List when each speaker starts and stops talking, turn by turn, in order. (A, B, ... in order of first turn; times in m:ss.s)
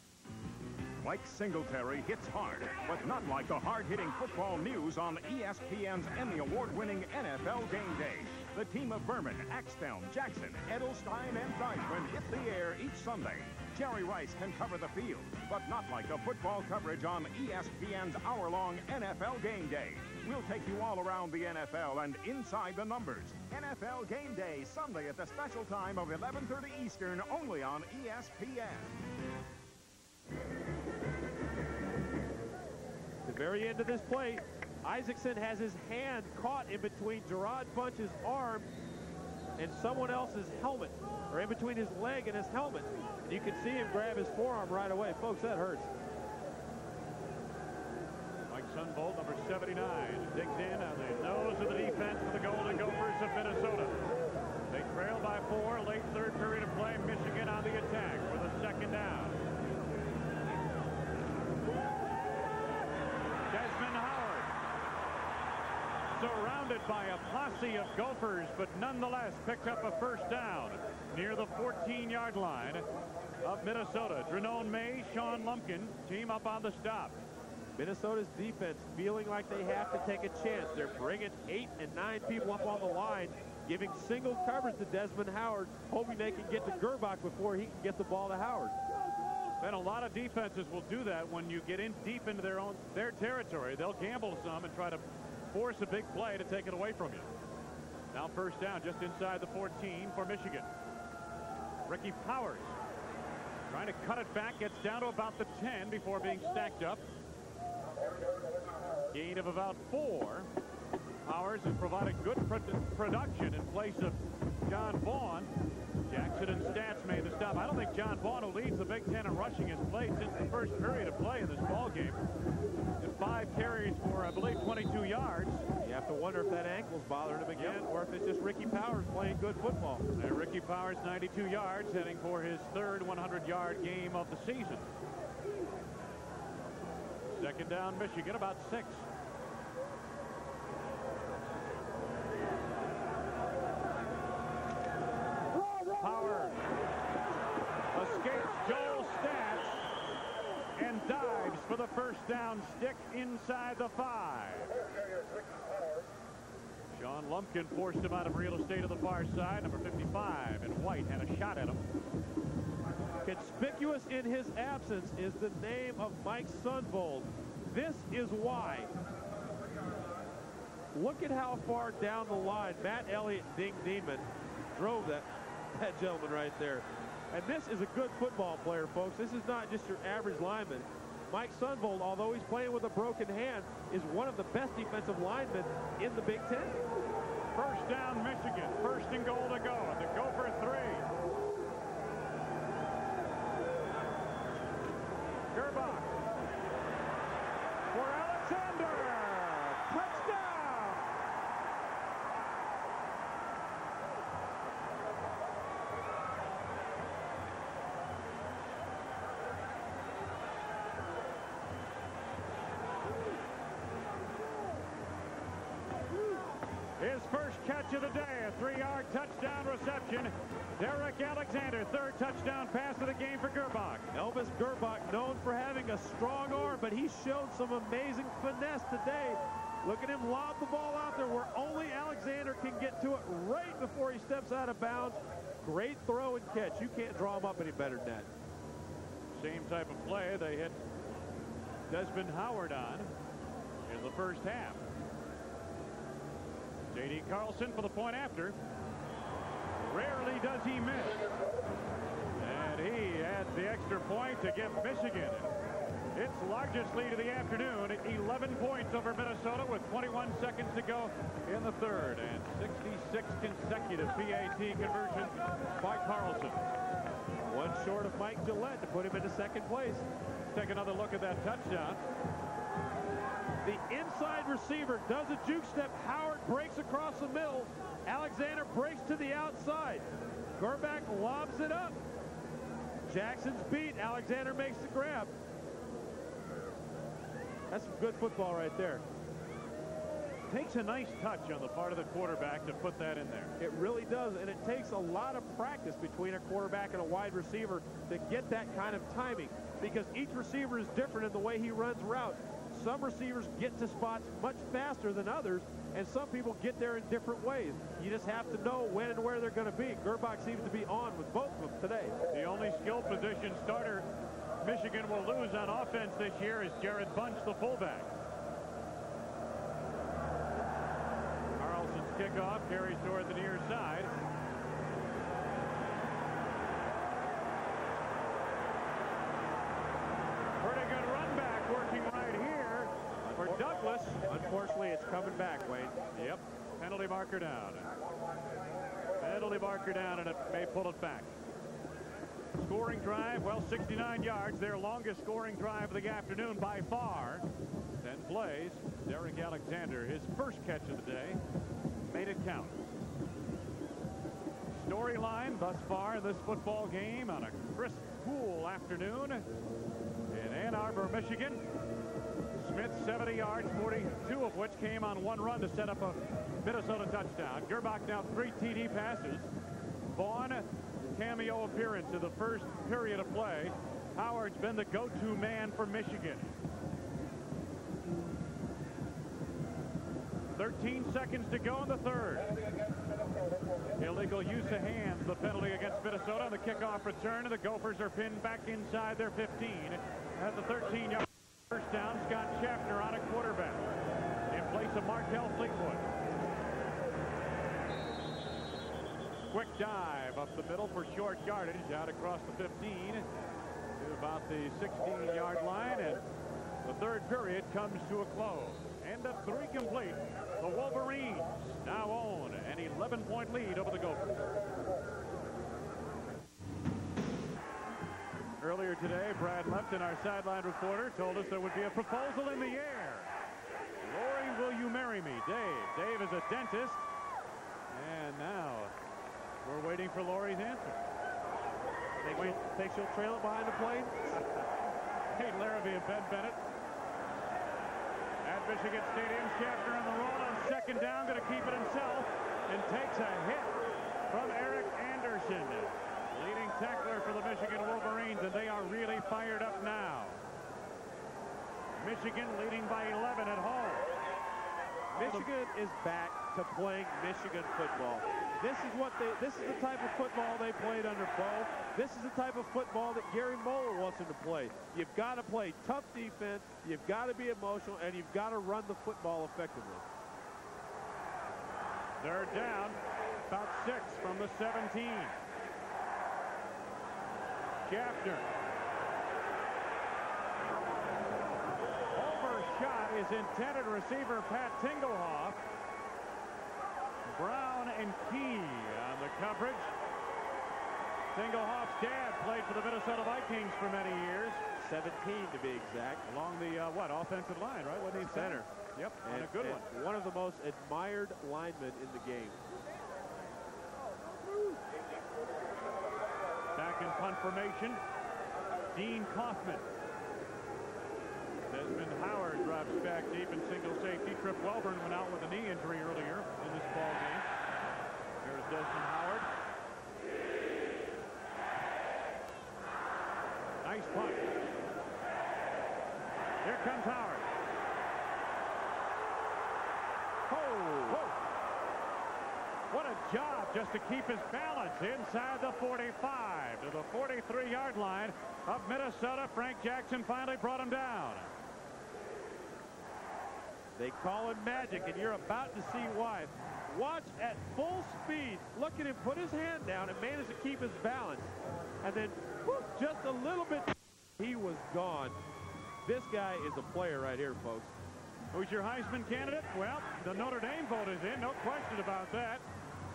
0:01.0-0:28.9 A
0:33.2-0:38.7 B
0:39.6-0:45.9 B
0:48.5-0:54.0 C
0:54.7-0:59.4 C
1:03.5-1:04.5 C
1:06.1-1:12.8 C
1:13.4-1:17.2 C
1:17.8-1:28.8 B
1:29.6-1:37.3 C
1:38.1-1:40.7 C
1:41.8-1:42.8 C
1:43.7-1:47.0 C
1:49.1-1:50.5 C
1:51.2-1:55.5 C
1:56.1-2:02.2 C
2:03.0-2:05.6 C
2:05.8-2:10.0 B
2:07.5-2:07.8 C
2:10.2-2:14.9 C
2:17.3-2:19.1 C
2:25.8-2:26.6 C
2:27.9-2:29.9 C
2:30.8-2:34.7 C
2:36.9-2:41.8 C
2:43.2-2:48.9 B
2:50.9-3:06.8 B
3:07.5-3:11.0 C
3:15.5-3:16.2 C
3:17.9-3:21.1 C
3:37.0-3:44.1 C
3:44.1-3:58.3 B
3:59.3-4:00.8 C
4:01.9-4:03.1 C
4:03.8-4:04.8 C
4:06.9-4:08.6 C
4:09.8-4:11.3 C
4:12.4-4:15.5 C
4:16.1-4:26.7 C
4:27.5-4:30.0 B
4:30.5-4:32.0 C
4:33.6-4:40.0 B
4:40.6-4:42.0 B
4:43.1-4:45.3 B
4:47.7-4:49.0 B
4:50.5-4:53.5 C
4:53.6-5:12.2 B
5:12.3-5:14.0 C
5:14.6-5:18.1 C
5:21.6-5:24.1 C
5:30.6-5:34.2 C
5:33.4-5:36.0 B
5:36.1-5:37.9 C
5:39.2-5:41.3 C
5:42.6-5:47.4 C
5:48.0-5:51.4 C
5:52.0-5:52.9 C
5:54.7-5:59.4 C
6:00.3-6:01.6 C
6:02.6-6:09.5 C
6:10.1-6:16.5 C
6:20.6-6:22.5 C
6:24.0-6:33.9 C
6:34.5-6:36.0 C
6:39.5-6:43.3 C
6:44.0-6:46.2 C
6:46.8-6:54.4 C
6:58.6-7:03.3 C
7:04.0-7:07.0 C
7:07.9-7:08.9 C
7:09.6-7:11.0 C
7:12.2-7:14.4 B
7:15.3-7:16.6 C
7:18.4-7:23.8 C
7:24.3-7:30.4 C
7:32.0-7:34.1 C
7:35.1-7:50.0 B
7:35.1-7:35.5 C
7:52.2-7:55.4 C
7:57.8-7:58.5 C
8:02.1-8:05.6 C
8:07.3-8:09.9 C
8:11.3-8:14.6 C
8:14.8-8:16.2 B
8:16.2-8:19.9 C
8:18.2-8:18.7 B
8:19.2-8:22.6 B
8:26.8-8:28.0 C
8:28.9-8:29.9 C
8:31.7-8:37.5 C
8:38.4-8:39.5 C
8:43.8-8:44.5 C
8:46.6-8:47.5 C
8:50.5-8:51.2 B
8:51.0-8:51.3 C
8:52.9-9:01.5 C
9:04.0-9:15.4 B
9:16.0-9:17.9 B
9:18.5-9:22.6 C